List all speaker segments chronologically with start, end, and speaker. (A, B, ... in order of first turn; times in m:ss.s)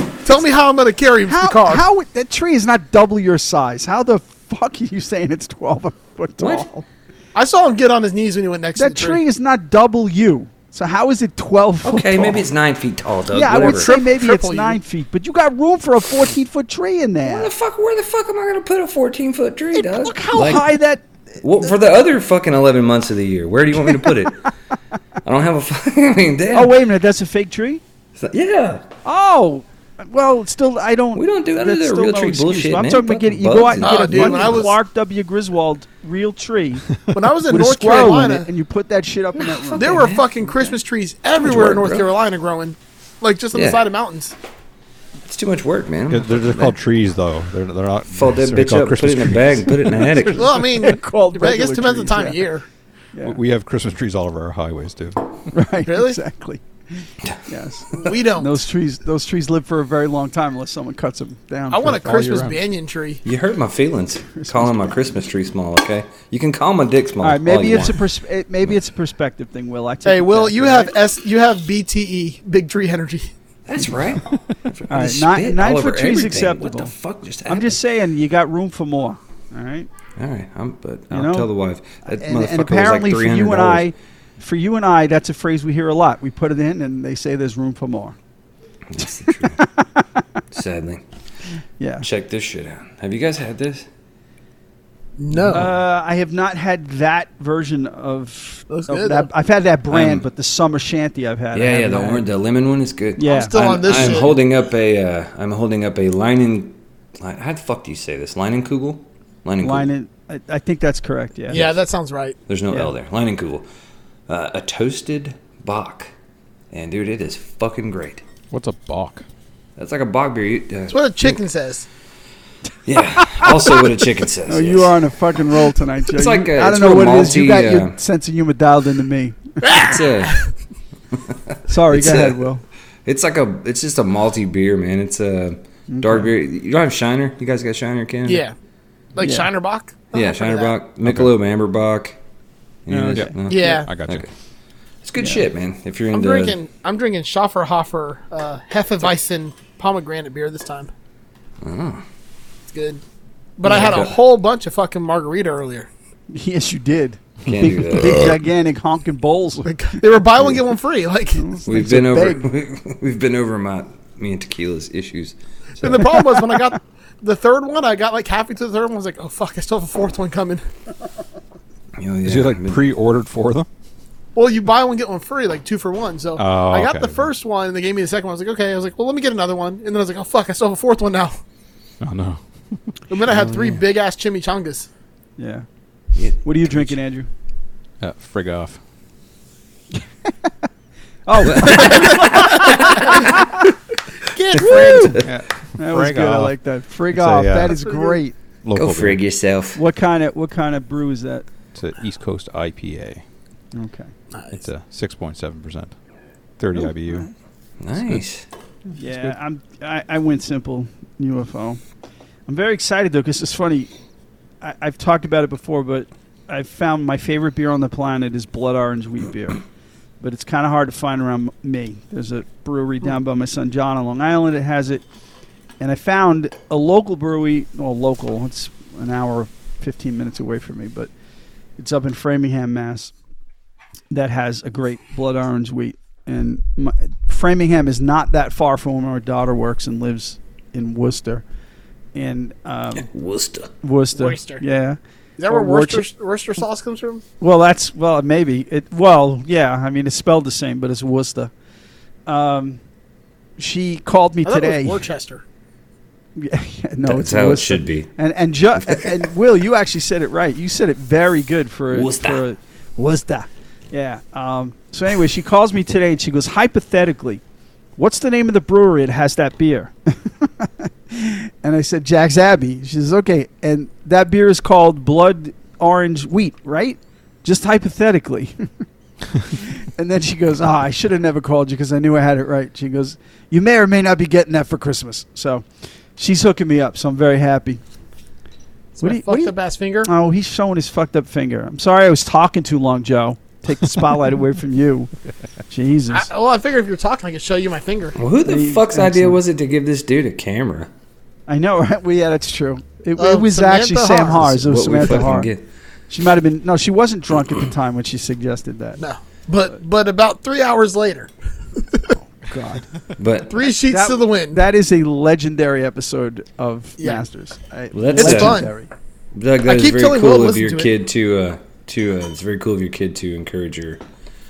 0:00.2-0:01.8 A
0:01.3-0:06.8 B
0:06.4-0:06.7 C
0:07.4-0:09.2 A
0:08.8-0:12.5 B
0:11.8-0:13.9 C
0:13.3-0:17.5 B
0:13.5-0:14.8 A
0:17.2-0:20.7 C
0:19.7-0:21.4 B
0:21.4-0:24.4 C
0:23.9-0:24.3 B
0:25.2-0:26.8 C
0:26.5-0:27.8 B
0:28.2-0:28.8 C
0:29.0-0:37.0 B
0:31.2-0:34.6 C
0:33.8-0:34.7 A
0:37.1-0:38.5 A
0:37.5-0:40.8 B
0:39.6-0:40.2 C
0:39.8-0:44.3 A
0:41.4-0:42.1 C
0:43.5-0:43.9 C
0:45.3-0:46.8 C
0:46.1-0:50.2 D
0:48.1-0:50.6 C
0:50.2-0:52.4 B
0:50.4-0:52.7 A
0:53.2-0:55.5 D
0:55.5-1:02.4 B
0:55.9-0:56.2 A
0:57.9-0:58.6 A
1:01.7-1:03.2 A
1:01.8-1:02.6 D
1:03.2-1:08.0 C
1:04.4-1:05.1 B
1:07.2-1:11.0 B
1:10.1-1:13.3 A
1:13.7-1:17.8 C
1:14.9-1:16.9 B
1:17.5-1:19.9 B
1:20.2-1:23.9 C
1:21.1-1:21.5 B
1:22.1-1:28.2 B
1:28.9-1:29.6 C
1:29.0-1:30.2 B
1:30.5-1:31.0 C
1:31.8-1:32.1 B
1:32.0-1:33.8 C
1:35.2-1:35.7 A
1:35.4-1:35.7 C
1:35.5-1:42.2 B
1:38.7-1:39.3 A
1:39.9-1:40.2 C
1:41.5-1:49.9 C
1:43.2-1:44.3 B
1:43.2-1:44.4 A
1:49.6-1:51.7 B
1:51.5-1:52.4 A
1:52.5-1:53.6 C
1:54.3-1:56.1 C
1:56.7-1:58.2 C
1:58.5-1:59.3 D
1:59.8-2:01.4 C
2:00.9-2:01.9 A
2:02.9-2:05.0 C
2:03.2-2:03.6 B
2:04.5-2:09.8 B
2:06.1-2:08.0 C
2:09.6-2:10.5 A
2:09.7-2:10.4 C
2:11.3-2:12.4 C
2:11.7-2:12.6 B
2:13.1-2:18.4 C
2:15.9-2:16.3 B
2:18.2-2:18.6 A
2:19.2-2:20.7 A
2:19.2-2:19.5 B
2:20.1-2:22.2 C
2:21.0-2:21.3 D
2:22.9-2:24.3 C
2:22.9-2:23.4 B
2:23.1-2:24.3 D
2:23.5-2:23.9 A
2:25.0-2:26.6 C
2:26.1-2:30.9 A
2:31.6-2:32.0 C
2:32.7-2:33.0 A
2:33.6-2:35.9 A
2:33.6-2:34.1 C
2:33.7-2:33.9 B
2:36.3-2:39.7 B
2:37.5-2:38.4 C
2:39.6-2:41.5 A
2:41.4-2:42.5 B
2:41.7-2:46.2 C
2:45.8-2:50.6 A
2:52.0-2:52.8 C
2:52.2-2:53.7 D
2:54.4-3:01.4 A
2:56.4-2:57.3 D
3:02.0-3:03.0 D
3:03.1-3:04.9 A
3:03.3-3:03.8 C
3:05.4-3:05.7 B
3:06.2-3:06.9 C
3:06.4-3:07.3 B
3:08.0-3:08.8 D
3:11.3-3:13.4 B
3:11.4-3:13.4 C
3:11.7-3:13.2 A
3:14.2-3:15.2 A
3:14.6-3:15.3 C
3:14.6-3:15.2 B
3:15.2-3:16.6 D
3:15.8-3:18.4 B
3:17.1-3:17.8 D
3:17.9-3:18.2 A
3:18.6-3:19.2 D
3:18.8-3:19.8 C
3:19.8-3:21.5 B
3:21.7-3:23.2 D
3:23.7-3:24.1 B
3:24.3-3:24.6 A
3:24.5-3:25.9 D
3:26.6-3:27.3 D
3:26.8-3:27.3 B
3:27.8-3:28.5 C
3:28.9-3:31.8 B
3:32.5-3:33.9 B
3:34.6-3:39.6 B
3:40.2-3:45.0 B
3:45.8-3:51.1 B
3:51.8-3:53.1 B
3:54.1-4:01.4 B
4:02.1-4:03.1 B
4:03.0-4:03.7 C
4:03.8-4:05.0 B
4:04.1-4:04.6 A
4:05.4-4:07.2 A
4:05.5-4:06.1 B
4:07.4-4:11.5 B
4:12.3-4:12.8 B
4:13.6-4:15.0 B
4:14.4-4:15.4 A
4:16.4-4:27.4 B
4:17.0-4:18.1 C
4:18.8-4:19.2 C
4:21.9-4:22.4 C
4:28.0-4:38.7 B
4:39.5-4:47.8 B
4:49.0-4:50.1 A
4:49.0-4:55.1 B
4:55.7-4:56.3 B
4:56.1-4:58.2 A
4:58.2-5:00.9 C
4:58.4-4:59.4 B
5:01.5-5:05.5 B
5:03.2-5:04.5 A
5:04.4-5:05.6 C
5:06.1-5:09.0 B
5:09.0-5:12.1 A
5:12.3-5:12.8 B
5:13.2-5:13.6 C
5:13.5-5:14.6 A
5:13.9-5:18.9 B
5:17.0-5:17.2 A
5:17.9-5:18.7 C
5:18.2-5:18.7 A
5:19.4-5:24.0 C
5:19.7-5:20.9 A